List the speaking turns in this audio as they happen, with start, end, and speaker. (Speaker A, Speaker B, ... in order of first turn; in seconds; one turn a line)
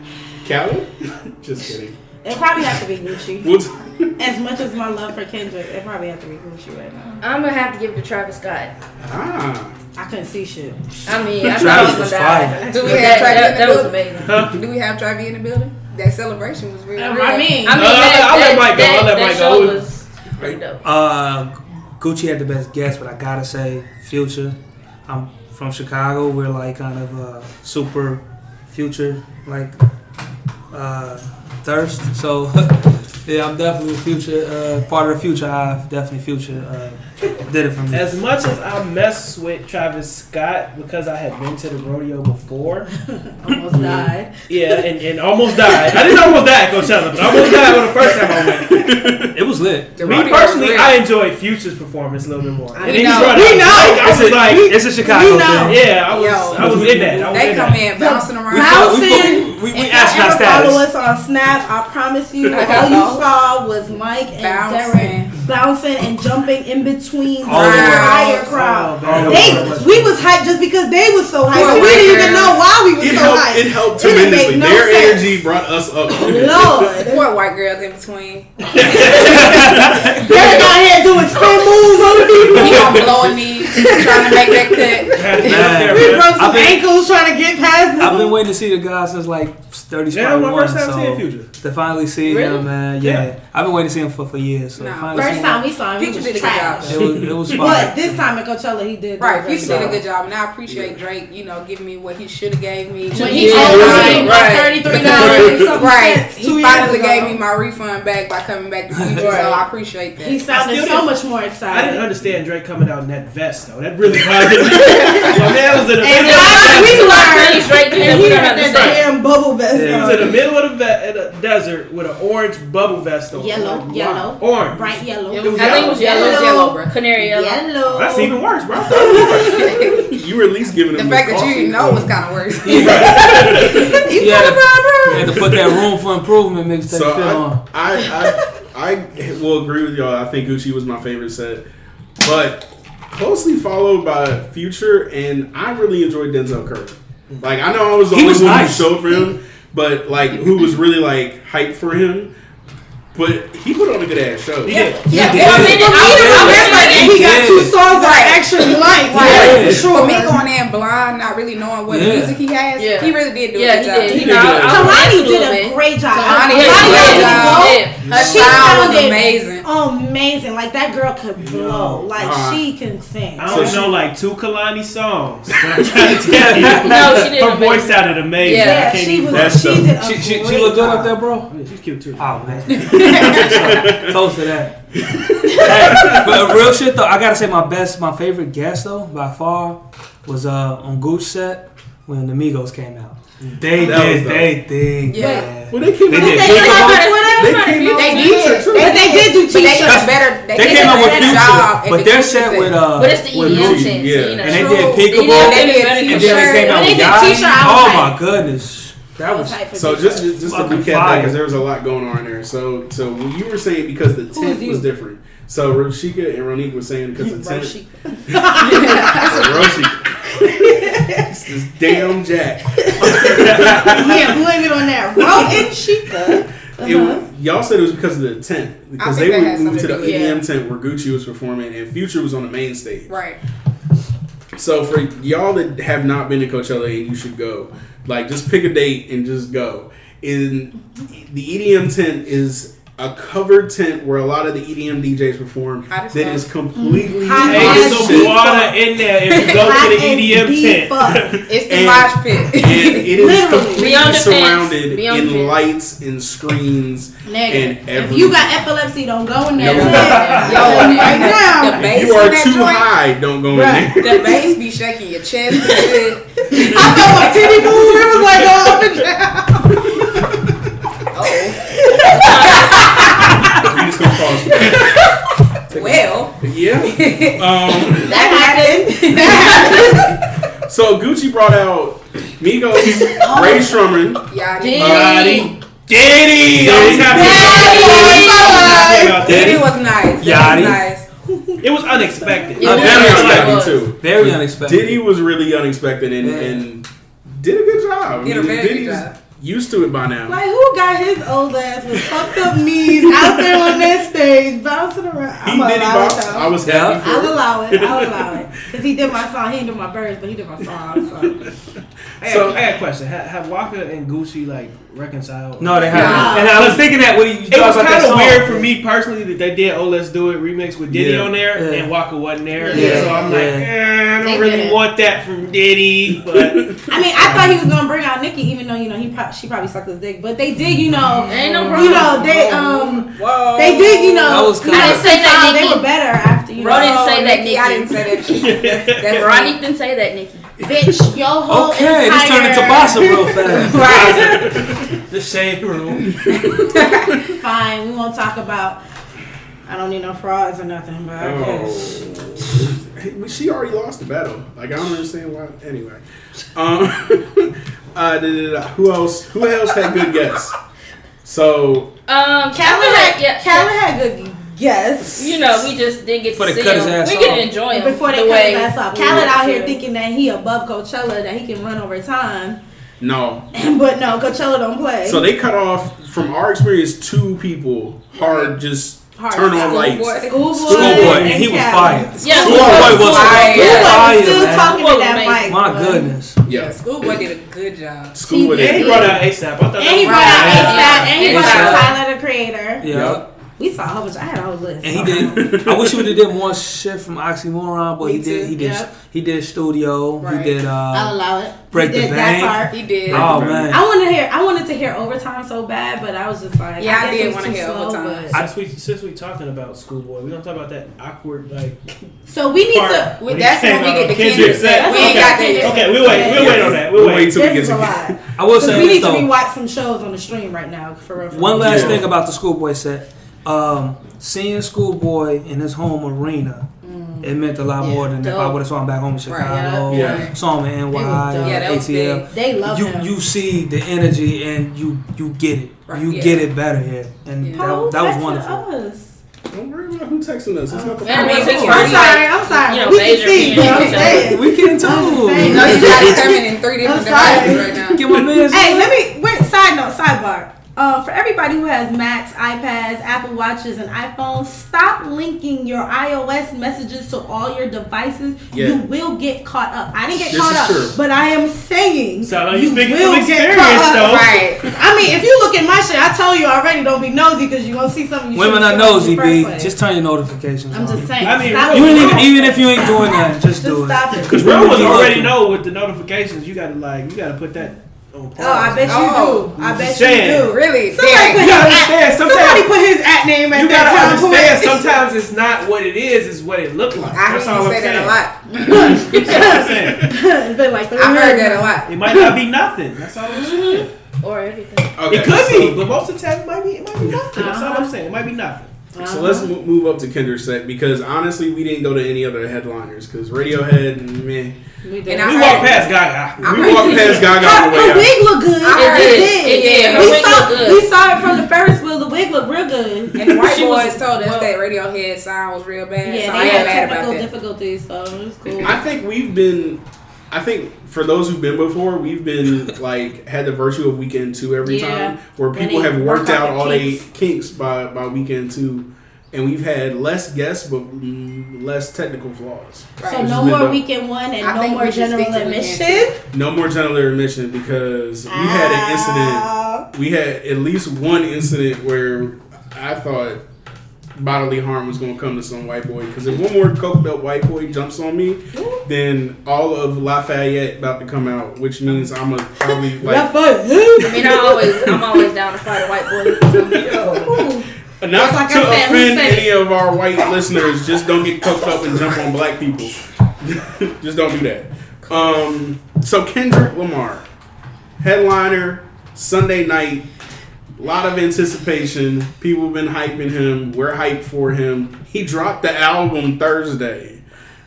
Speaker A: 0.4-2.0
Speaker B: 2.2-3.5
Speaker A: 3.4-4.1
Speaker B: 4.2-7.2
Speaker C: 7.2-8.7
Speaker A: 9.0-9.8
Speaker B: 9.9-10.8
Speaker C: 11.1-14.4
Speaker A: 11.4-11.9
Speaker D: 11.5-13.1
Speaker E: 12.5-13.4
Speaker F: 12.7-18.1
Speaker E: 14.2-14.6
Speaker B: 17.0-17.9
Speaker C: 17.6-20.8
Speaker E: 17.7-19.9
Speaker D: 20.8-24.6
Speaker D: 25.1-29.7
Speaker D: 30.7-38.2
Speaker E: 37.9-42.9
Speaker B: 43.3-44.8
Speaker A: 43.7-44.0
Speaker E: 44.5-48.9
Speaker A: 48.7-49.3
Speaker D: 49.3-50.3
Speaker F: 50.0-51.0
Speaker E: 50.0-54.8
Speaker B: 52.7-55.8
Speaker F: 52.8-53.5
Speaker D: 53.6-56.0
Speaker E: 55.6-58.0
Speaker F: 56.1-59.2
Speaker D: 56.5-57.6
Speaker B: 57.9-75.4
Speaker D: 58.5-60.9
Speaker A: 62.5-62.9
Speaker F: 62.5-63.3
Speaker F: 64.3-65.3
Speaker D: 67.4-70.2
Speaker F: 67.5-68.6
Speaker E: 68.8-69.9
Speaker F: 71.5-72.6
Speaker A: 72.9-76.9
Speaker B: 76.1-77.2
Speaker F: 76.9-80.7
Speaker D: 79.2-80.1
Speaker B: 80.0-83.0
Speaker A: 82.2-83.3
Speaker F: 82.5-85.7
Speaker E: 85.1-86.6
Speaker D: 85.4-86.8
Speaker B: 85.8-88.4
Speaker D: 88.0-95.6
Speaker E: 90.1-91.5
Speaker C: 92.2-92.7
Speaker E: 93.0-93.3
Speaker F: 94.8-97.3
Speaker B: 95.1-100.0
Speaker D: 96.9-98.2
Speaker F: 99.2-110.4
Speaker A: 99.6-100.0
Speaker A: 100.7-101.0
Speaker C: 103.1-104.8
Speaker B: 103.1-107.4
Speaker D: 103.8-104.2
Speaker A: 105.0-105.8
Speaker D: 108.9-109.3
Speaker B: 109.2-109.6
Speaker B: 110.2-112.1
Speaker E: 110.5-111.1
Speaker E: 111.7-117.4
Speaker A: 114.1-115.0
Speaker B: 114.8-115.3
Speaker B: 116.0-120.3
Speaker C: 116.6-119.0
Speaker E: 118.6-119.0
Speaker D: 119.7-120.3
Speaker E: 119.8-126.2
Speaker B: 123.3-129.7
Speaker F: 125.3-126.9
Speaker C: 125.5-127.7
Speaker E: 127.8-129.5
Speaker A: 128.7-132.2
Speaker F: 129.1-130.1
Speaker F: 130.9-133.9
Speaker D: 132.7-133.0
Speaker E: 132.7-133.8
Speaker A: 132.8-133.9
Speaker B: 133.9-135.4
Speaker D: 134.2-137.6
Speaker A: 135.1-135.7
Speaker A: 136.9-141.6
Speaker A: 142.2-152.3
Speaker D: 148.1-149.0
Speaker A: 153.1-155.0
Speaker E: 154.6-155.1
Speaker F: 154.7-164.5
Speaker D: 155.1-157.8
Speaker B: 155.1-160.4
Speaker C: 155.2-157.2
Speaker D: 159.2-159.9
Speaker A: 159.3-159.8
Speaker D: 161.9-162.4
Speaker C: 162.8-169.0
Speaker A: 164.1-165.0
Speaker B: 164.2-173.9
Speaker F: 166.1-169.6
Speaker E: 168.0-168.7
Speaker D: 171.5-172.0
Speaker A: 172.1-172.6
Speaker E: 173.4-179.6
Speaker A: 173.4-173.9
Speaker A: 175.8-176.0
Speaker D: 176.2-177.2
Speaker C: 176.8-179.0
Speaker B: 178.4-181.2
Speaker A: 179.3-180.0
Speaker D: 179.8-181.5
Speaker E: 181.3-182.9
Speaker D: 182.2-184.8
Speaker F: 182.7-183.8
Speaker A: 182.9-184.2
Speaker A: 185.1-186.5
Speaker D: 185.5-197.1
Speaker E: 193.4-193.8
Speaker A: 193.7-194.6
Speaker F: 195.1-195.5
Speaker B: 195.1-195.5
Speaker A: 195.7-199.3
Speaker B: 196.1-197.7
Speaker C: 196.2-198.6
Speaker F: 197.9-202.9
Speaker B: 198.7-201.6
Speaker D: 199.7-209.6
Speaker C: 202.9-207.5
Speaker A: 203.4-204.6
Speaker F: 204.4-207.2
Speaker B: 206.8-208.2
Speaker B: 209.2-210.6
Speaker A: 209.7-224.4
Speaker D: 210.4-211.4
Speaker B: 214.3-214.9
Speaker B: 217.2-219.2
Speaker F: 218.6-219.6
Speaker B: 220.5-221.3
Speaker B: 222.8-227.2
Speaker D: 223.1-224.1
Speaker A: 225.1-233.1
Speaker F: 229.0-230.4
Speaker C: 230.0-230.3
Speaker F: 233.1-233.4
Speaker A: 234.5-248.4
Speaker F: 245.9-246.4
Speaker B: 246.8-248.7
Speaker E: 247.4-251.4
Speaker F: 249.3-249.8
Speaker B: 249.3-251.3
Speaker A: 251.3-258.5
Speaker F: 251.5-253.1
Speaker B: 253.1-253.9
Speaker C: 253.7-255.6
Speaker B: 257.2-261.9
Speaker A: 259.5-264.5
Speaker C: 259.6-261.4
Speaker F: 259.7-262.9
Speaker B: 263.5-263.9
Speaker F: 264.0-267.9
Speaker A: 266.5-268.8
Speaker B: 266.6-270.1
Speaker A: 269.8-270.4
Speaker F: 271.1-271.6
Speaker B: 271.8-273.3
Speaker C: 272.1-273.1
Speaker F: 272.3-272.8
Speaker A: 273.6-275.0
Speaker A: 275.7-278.2
Speaker F: 275.7-280.0
Speaker B: 278.1-280.1
Speaker A: 280.7-284.2
Speaker B: 283.1-283.8
Speaker F: 284.3-285.5
Speaker C: 284.6-285.5
Speaker A: 284.8-285.2
Speaker E: 284.8-289.7
Speaker A: 286.6-287.4
Speaker D: 286.7-287.1
Speaker B: 287.1-289.2
Speaker F: 287.4-291.0
Speaker C: 287.6-288.5
Speaker D: 289.2-290.8
Speaker B: 291.3-292.6
Speaker E: 291.6-293.6
Speaker C: 292.6-293.9
Speaker A: 292.6-300.4
Speaker D: 292.6-295.0
Speaker D: 296.2-296.6
Speaker F: 298.2-299.1
Speaker B: 300.3-311.5
Speaker A: 302.0-303.9
Speaker A: 305.4-308.4
Speaker D: 306.6-307.0
Speaker E: 312.2-326.8
Speaker A: 312.2-312.7
Speaker D: 315.6-318.7
Speaker F: 315.9-316.5
Speaker B: 315.9-316.6
Speaker A: 320.9-321.3
Speaker D: 320.9-321.9
Speaker B: 322.6-323.2
Speaker D: 322.7-323.7
Speaker F: 324.3-324.6
Speaker A: 326.3-327.6
Speaker B: 326.9-337.0
Speaker C: 331.3-332.3
Speaker A: 332.1-333.1
Speaker F: 333.1-334.3
Speaker C: 333.3-335.9
Speaker D: 334.2-335.1
Speaker F: 336.6-339.6
Speaker C: 336.6-338.0
Speaker E: 338.3-339.3
Speaker C: 339.1-340.5
Speaker B: 340.6-343.7
Speaker D: 341.5-344.1
Speaker F: 343.5-344.5
Speaker A: 343.8-344.9
Speaker E: 345.1-346.1
Speaker F: 346.2-347.2
Speaker A: 346.3-346.8
Speaker B: 347.3-348.8
Speaker B: 349.6-352.0
Speaker A: 351.2-356.0
Speaker A: 356.5-360.5
Speaker A: 361.2-361.9
Speaker C: 362.1-363.7
Speaker B: 362.5-365.3
Speaker C: 365.1-369.8
Speaker D: 366.4-367.5
Speaker B: 367.7-372.6
Speaker A: 369.0-369.3
Speaker A: 373.0-373.5
Speaker B: 373.5-375.3
Speaker A: 375.0-381.0
Speaker B: 379.1-386.1
Speaker F: 379.4-381.4
Speaker D: 380.6-384.9
Speaker F: 382.2-384.2
Speaker C: 382.2-385.5
Speaker A: 382.4-383.1
Speaker D: 385.4-386.4
Speaker A: 386.4-386.7
Speaker F: 386.5-388.2
Speaker A: 388.1-389.2
Speaker B: 388.3-389.2
Speaker E: 388.5-391.1
Speaker B: 389.8-392.9
Speaker F: 390.0-391.8
Speaker C: 390.5-391.9
Speaker D: 391.1-392.0
Speaker D: 392.8-393.2
Speaker A: 392.9-393.2
Speaker B: 393.6-395.5
Speaker D: 394.8-401.2
Speaker A: 395.0-396.2
Speaker F: 398.0-398.5
Speaker B: 398.5-398.9
Speaker F: 400.2-400.6
Speaker B: 400.9-402.8
Speaker D: 401.7-403.9
Speaker F: 402.7-403.7
Speaker A: 403.1-403.4
Speaker B: 403.5-408.4
Speaker F: 406.8-408.3
Speaker E: 408.3-411.8
Speaker B: 412.3-413.2
Speaker E: 412.6-417.4
Speaker F: 413.2-416.2
Speaker A: 414.3-414.6
Speaker B: 414.5-422.0
Speaker A: 416.0-418.2
Speaker D: 418.4-419.3
Speaker D: 421.3-426.6
Speaker A: 421.6-422.0
Speaker B: 426.8-427.3
Speaker D: 427.2-438.6
Speaker B: 427.8-428.5
Speaker F: 429.2-430.3
Speaker B: 429.5-430.1
Speaker A: 429.9-430.3
Speaker B: 430.9-431.6
Speaker F: 431.4-432.2
Speaker B: 432.3-433.1
Speaker F: 435.9-436.5
Speaker B: 437.5-439.2
Speaker A: 439.5-441.8
Speaker B: 440.7-447.7
Speaker C: 441.0-444.3
Speaker F: 441.1-442.4
Speaker F: 443.3-444.2
Speaker D: 443.4-445.9
Speaker F: 445.4-448.1
Speaker A: 445.7-446.1
Speaker D: 447.9-449.0
Speaker A: 448.1-448.4
Speaker B: 448.5-469.7
Speaker A: 458.5-458.9
Speaker A: 460.1-461.0
Speaker E: 462.2-464.4
Speaker F: 463.9-464.7
Speaker D: 468.3-475.4
Speaker B: 470.7-474.4
Speaker E: 471.2-472.5
Speaker E: 474.3-480.5
Speaker B: 478.4-484.8
Speaker F: 478.9-479.5
Speaker F: 480.4-481.5
Speaker E: 481.3-482.7
Speaker E: 483.5-488.2
Speaker F: 487.1-489.7
Speaker B: 488.6-492.3
Speaker E: 489.0-490.1
Speaker F: 490.9-491.9
Speaker E: 491.8-493.9
Speaker B: 493.5-493.7
Speaker C: 494.2-494.9
Speaker A: 495.0-495.9
Speaker E: 495.1-498.7
Speaker B: 497.3-497.9
Speaker B: 498.9-499.5
Speaker A: 499.0-504.6
Speaker B: 504.8-505.7
Speaker F: 505.1-508.0
Speaker E: 505.2-507.1
Speaker A: 506.4-508.3
Speaker B: 507.3-513.3
Speaker F: 508.6-510.4
Speaker C: 508.7-510.9
Speaker F: 513.1-517.3
Speaker C: 513.4-514.5
Speaker B: 516.0-518.8
Speaker C: 516.4-516.8
Speaker A: 518.6-533.8
Speaker B: 524.6-527.0
Speaker F: 533.0-533.4
Speaker B: 533.0-536.2
Speaker F: 534.4-536.1
Speaker A: 536.3-543.4
Speaker B: 538.3-539.9
Speaker A: 544.1-553.3
Speaker B: 548.5-548.8
Speaker B: 552.6-554.6
Speaker C: 554.0-557.3
Speaker A: 556.4-567.2
Speaker B: 557.1-559.6
Speaker A: 568.0-570.1
Speaker A: 570.8-577.2